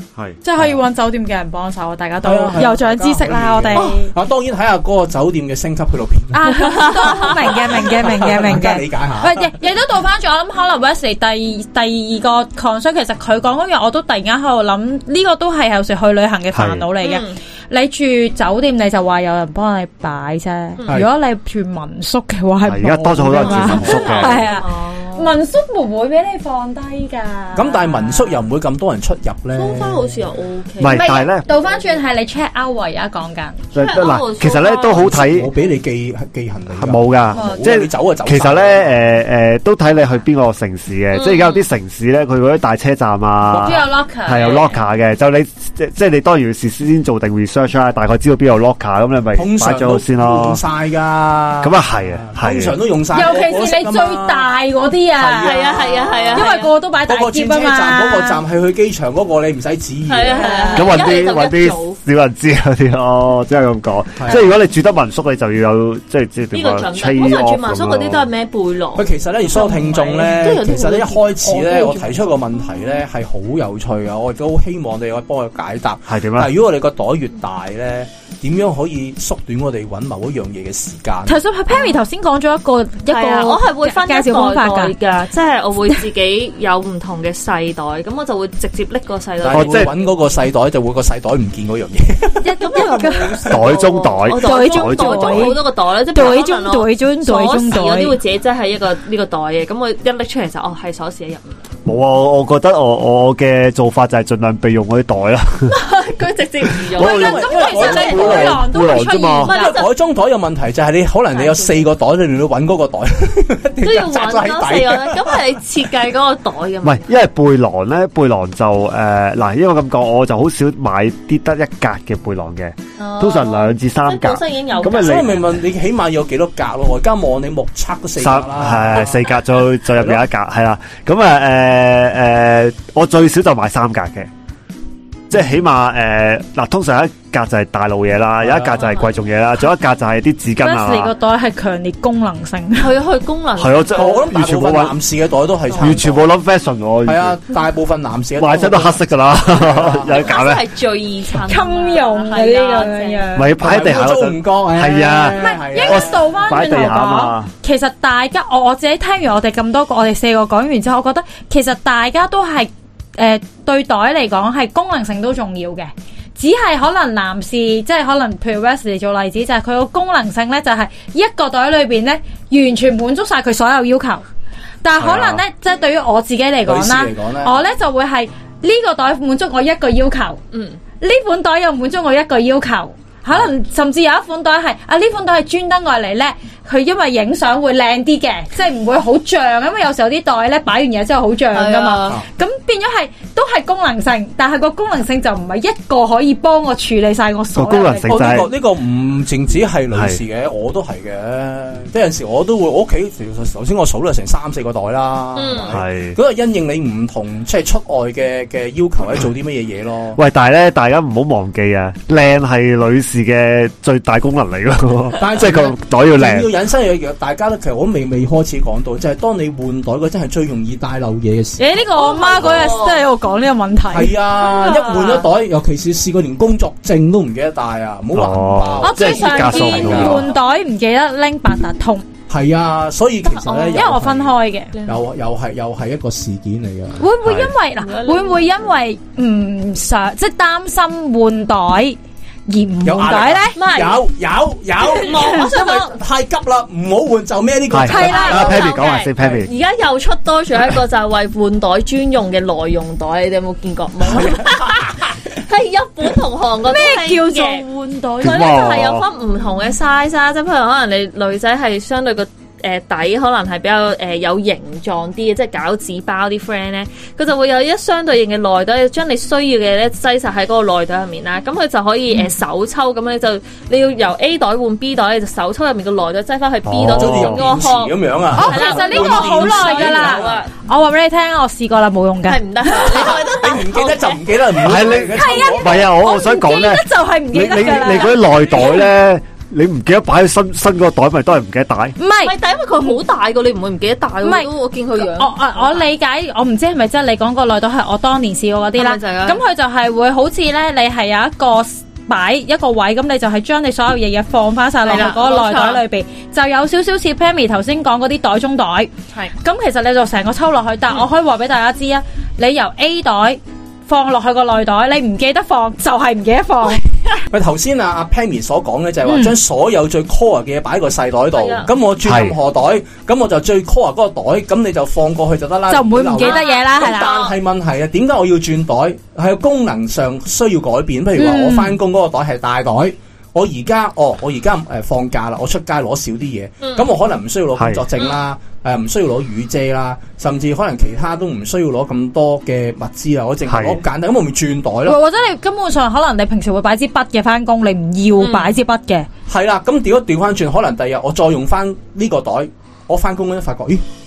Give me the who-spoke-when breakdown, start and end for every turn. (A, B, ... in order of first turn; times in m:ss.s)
0:00.4-0:04.1 A
0:02.2-0:09.5 B
0:06.3-0:28.4 A
0:06.7-0:07.1 C
0:16.5-0:16.9 D
0:17.0-0:17.4 C
0:22.6-0:24.4 D
0:23.3-0:24.4 B
0:23.6-0:25.3 C
0:27.6-0:30.2 B
0:29.5-0:32.0 C
0:30.8-0:31.4 D
0:30.9-0:33.7 A
0:33.7-0:35.5 D
0:33.8-0:35.7 C
0:34.9-0:39.0 B
0:36.7-0:50.6 D
0:37.4-0:37.6 A
0:41.1-0:41.6 C
0:43.5-0:44.8 A
0:49.3-0:54.5 B
0:51.6-0:52.8 D
0:53.1-0:55.7 A
0:55.2-0:56.5 B
0:55.4-0:56.7 C
0:56.3-0:58.4 A
0:57.1-1:00.7 B
1:00.1-1:02.0 C
1:00.4-1:01.0 A
1:00.8-1:08.3 D
1:04.2-1:04.5 B
1:06.5-1:12.2 C
1:09.0-1:21.4 B
1:16.1-1:16.5 D
1:21.3-1:24.9 A
1:21.7-1:22.0 C
1:23.1-1:30.4 C
1:29.4-1:32.9 B
1:29.5-1:29.9 D
1:32.4-1:33.6 A
1:32.6-1:41.6 C
1:33.5-1:35.6 D
1:34.4-1:38.2 A
1:41.8-1:45.8 D
1:45.7-1:48.5 C
1:46.9-1:49.6 D
1:47.0-1:48.6 B
1:47.0-1:49.7 A
1:49.4-1:49.9 C
1:49.5-1:55.4 B
1:51.3-1:51.8 C
1:53.8-1:57.1 C
1:56.8-2:05.4 D
2:03.0-2:05.4 C
2:04.8-2:09.3 B
2:08.2-2:14.3 D
2:09.9-2:10.2 B
2:15.3-2:21.1 D
2:18.4-2:18.9 B
2:18.8-2:19.1 C
2:20.6-2:22.9 A
2:22.8-2:24.3 C
2:23.6-2:25.0 D
2:23.9-2:26.3 B
2:25.7-2:26.0 C
2:25.8-2:27.4 D
2:27.0-2:30.3 B
2:28.4-2:30.6 D
2:30.1-2:33.3 C
2:31.5-2:33.6 A
2:33.4-2:37.5 D
2:33.6-2:36.2 B
2:35.3-2:54.2 A
2:54.8-3:00.4 A
2:55.0-2:55.4 D
2:56.6-2:57.6 B
3:00.5-3:00.8 C
3:01.0-3:18.5 A
3:11.5-3:12.2 C
3:17.6-3:18.5 D
3:18.1-3:30.2 B
3:19.9-3:20.2 D
3:25.4-3:25.8 C
3:25.7-3:26.2 D
3:30.2-3:36.5 D
3:35.2-3:41.7 B
3:41.6-3:44.2 A
3:41.9-3:43.0 C
3:43.9-3:50.3 B
3:44.4-3:45.3 C
3:48.1-3:50.3 D
3:48.8-3:52.0 A
3:52.3-3:54.3 B
3:53.3-3:54.7 A
3:54.7-3:55.0 C
3:54.8-3:57.1 B
3:57.0-4:02.0 A
3:57.2-3:57.5 D
3:57.8-3:58.6 C
4:02.5-4:03.6 A
4:02.8-4:09.4 B
4:03.6-4:04.0 C
4:04.8-4:06.0 C
4:05.2-4:05.4 A
4:07.7-4:09.5 D
4:07.8-4:08.5 A
4:07.9-4:17.6 C
4:14.1-4:14.9 B
4:16.7-4:18.6 A
4:18.2-4:40.5 C
4:18.2-4:19.1 D
4:36.6-4:37.4 D
4:36.8-4:40.4 B
4:38.4-4:43.1 A
4:42.2-4:44.7 C
4:42.8-4:46.0 B
4:44.6-4:52.0 D
4:45.1-4:48.9 A
4:52.0-4:53.0 A
4:52.2-4:55.9 C
4:54.2-5:16.8 A
4:58.8-4:59.4 C
5:04.8-5:05.8 C
5:17.3-5:45.0 B
5:19.1-5:19.4 A
5:21.3-5:21.7 C
5:22.0-5:22.4 D
5:25.7-5:27.2 A
5:26.2-5:27.3 C
5:31.2-5:31.8 A
5:36.6-5:36.9 C
5:37.6-5:37.8 D
5:43.5-5:43.8 D
5:44.8-5:49.1 A
5:48.2-5:48.6 C
5:49.3-5:53.8 B